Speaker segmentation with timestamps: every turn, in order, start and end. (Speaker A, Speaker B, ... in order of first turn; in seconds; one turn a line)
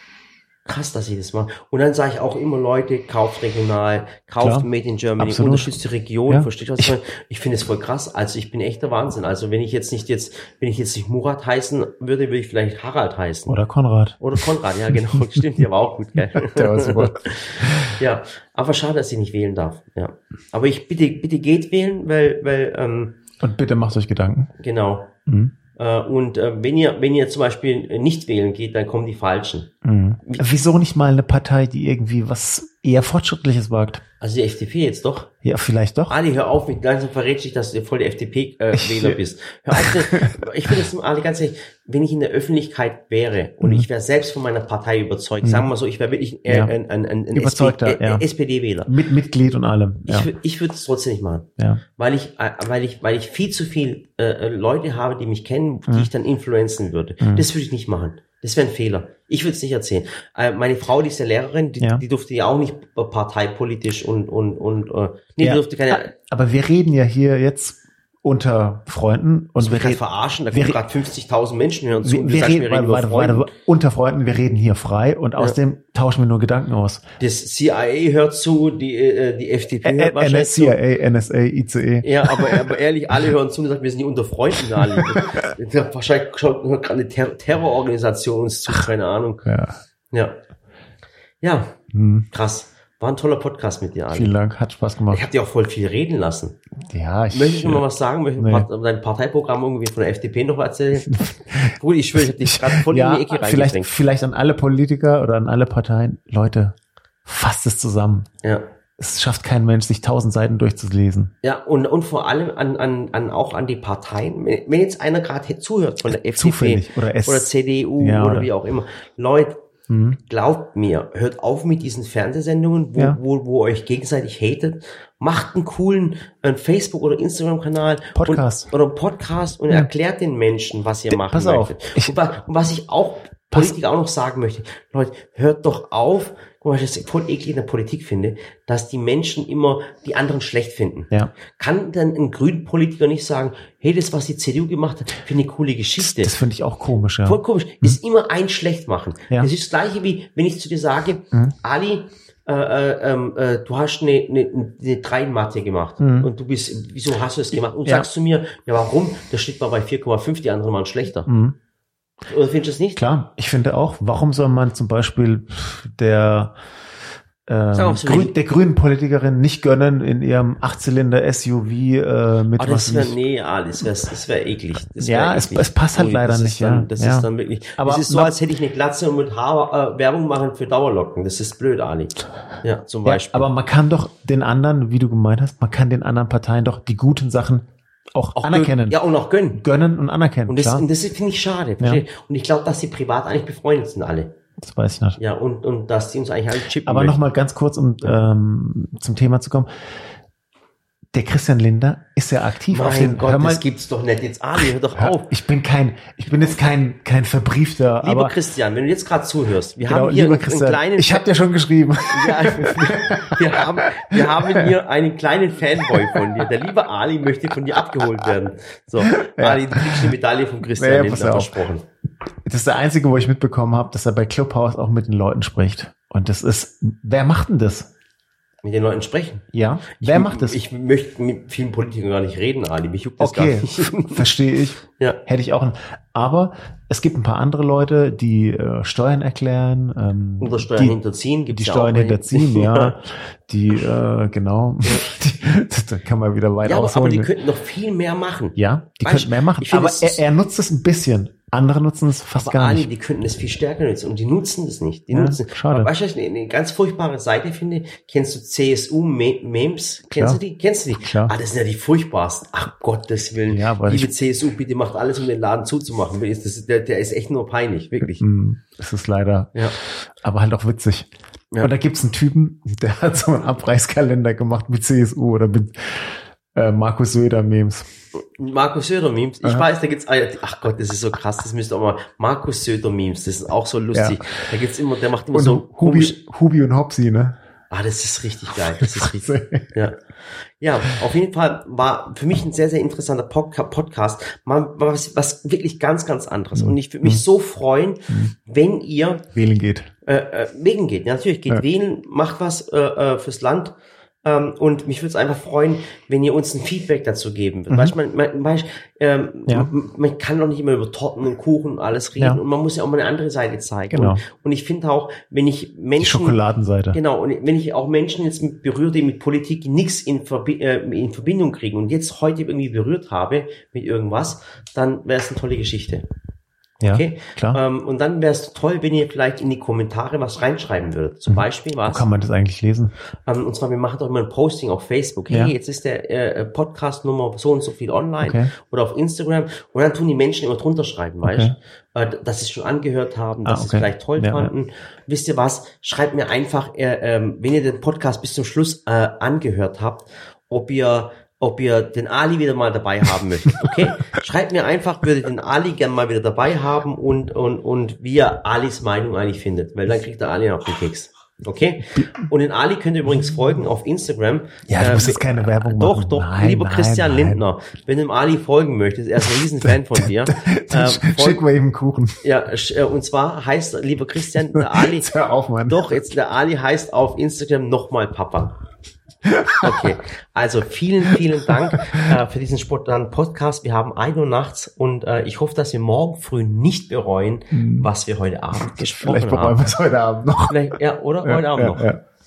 Speaker A: 0.6-13.6
Speaker B: 4.4-4.7
Speaker B: 5.2-5.7
Speaker B: 6.3-6.9
Speaker B: 13.5-15.6
Speaker A: 14.2-23.2
Speaker B: 16.2-18.0
Speaker B: 23.4-24.5
Speaker A: 24.6-25.1
Speaker B: 25.3-25.5
Speaker A: 25.8-29.7
Speaker B: 29.8-34.0
Speaker A: 34.2-35.3
Speaker B: 35.4-36.2
Speaker A: 36.1-48.9
Speaker B: 38.7-39.2
Speaker B: 39.7-40.8
Speaker B: 43.6-43.9
Speaker B: 45.4-45.7
Speaker B: 47.3-48.2
Speaker B: 48.9-50.3
Speaker A: 50.0-66.1
Speaker B: 57.2-57.5
Speaker B: 65.4-70.8
Speaker A: 69.6-73.5
Speaker B: 72.0-77.0
Speaker A: 77.2-80.8
Speaker B: 79.8-82.7
Speaker A: 82.0-89.5
Speaker B: 84.8-85.3
Speaker B: 89.4-89.8
Speaker A: 90.1-90.4
Speaker A: 91.4-91.8
Speaker B: 91.9-92.3
Speaker A: 92.3-94.3
Speaker B: 94.1-95.3
Speaker A: 95.1-96.6
Speaker B: 96.9-97.8
Speaker A: 97.3-103.9
Speaker B: 98.4-98.7
Speaker B: 101.1-106.7
Speaker B: 107.2-108.3
Speaker B: 109.0-111.3
Speaker A: 111.4-119.5
Speaker B: 116.1-118.5
Speaker B: 119.9-120.2
Speaker A: 120.3-146.3
Speaker B: 128.1-128.7
Speaker B: 131.1-132.2
Speaker B: 146.0-148.0
Speaker A: 147.2-161.3
Speaker B: 156.0-156.3
Speaker B: 161.3-161.6
Speaker A: 162.3-163.0
Speaker B: 162.9-166.5
Speaker B: 167.5-173.2
Speaker A: 167.7-168.3
Speaker A: 172.6-183.5
Speaker B: 175.0-178.3
Speaker B: 183.0-189.0
Speaker A: 188.4-189.6
Speaker B: 189.5-190.8
Speaker A: 190.5-194.3
Speaker B: 191.8-192.0
Speaker B: 194.6-195.2
Speaker A: 195.2-197.2
Speaker B: 196.8-199.7
Speaker B: 201.1-203.6
Speaker A: 202.7-205.3
Speaker B: 204.6-208.3
Speaker A: 208.0-211.2
Speaker B: 209.8-214.7
Speaker A: 212.1-221.8
Speaker B: 215.9-216.4
Speaker B: 219.0-220.1
Speaker B: 220.8-221.7
Speaker B: 222.4-227.9
Speaker A: 228.6-234.2
Speaker B: 229.5-230.6
Speaker B: 233.2-241.0
Speaker A: 240.4-242.9
Speaker B: 241.5-247.3
Speaker A: 246.6-250.2
Speaker B: 248.6-252.9
Speaker A: 252.4-268.2
Speaker B: 255.1-255.9
Speaker B: 260.1-260.4
Speaker B: 261.0-261.3
Speaker B: 263.5-264.1
Speaker B: 268.2-271.1
Speaker B: 271.6-277.9
Speaker A: 278.1-286.2
Speaker B: 283.9-284.4
Speaker B: 285.3-287.4
Speaker A: 287.7-290.0
Speaker B: 288.5-289.8
Speaker A: 290.6-299.2
Speaker B: 296.6-297.2
Speaker B: 299.3-299.9
Speaker A: 300.1-316.4
Speaker B: 307.7-307.9
Speaker B: 313.9-314.2
Speaker B: 316.0-317.0
Speaker A: 316.9-326.0
Speaker B: 326.8-327.6
Speaker A: 326.9-332.0
Speaker B: 331.3-332.9
Speaker A: 333.2-371.4
Speaker B: 338.2-338.5
Speaker B: 341.2-341.5
Speaker B: 343.4-344.5
Speaker B: 364.7-367.4
Speaker B: 369.2-372.2
Speaker A: 372.2-375.1
Speaker B: 374.3-375.8
Speaker A: 375.7-378.5
Speaker B: 379.2-379.9
Speaker A: 379.6-389.7
Speaker B: 381.1-382.1
Speaker B: 387.5-387.9
Speaker B: 388.6-392.0
Speaker A: 390.5-391.9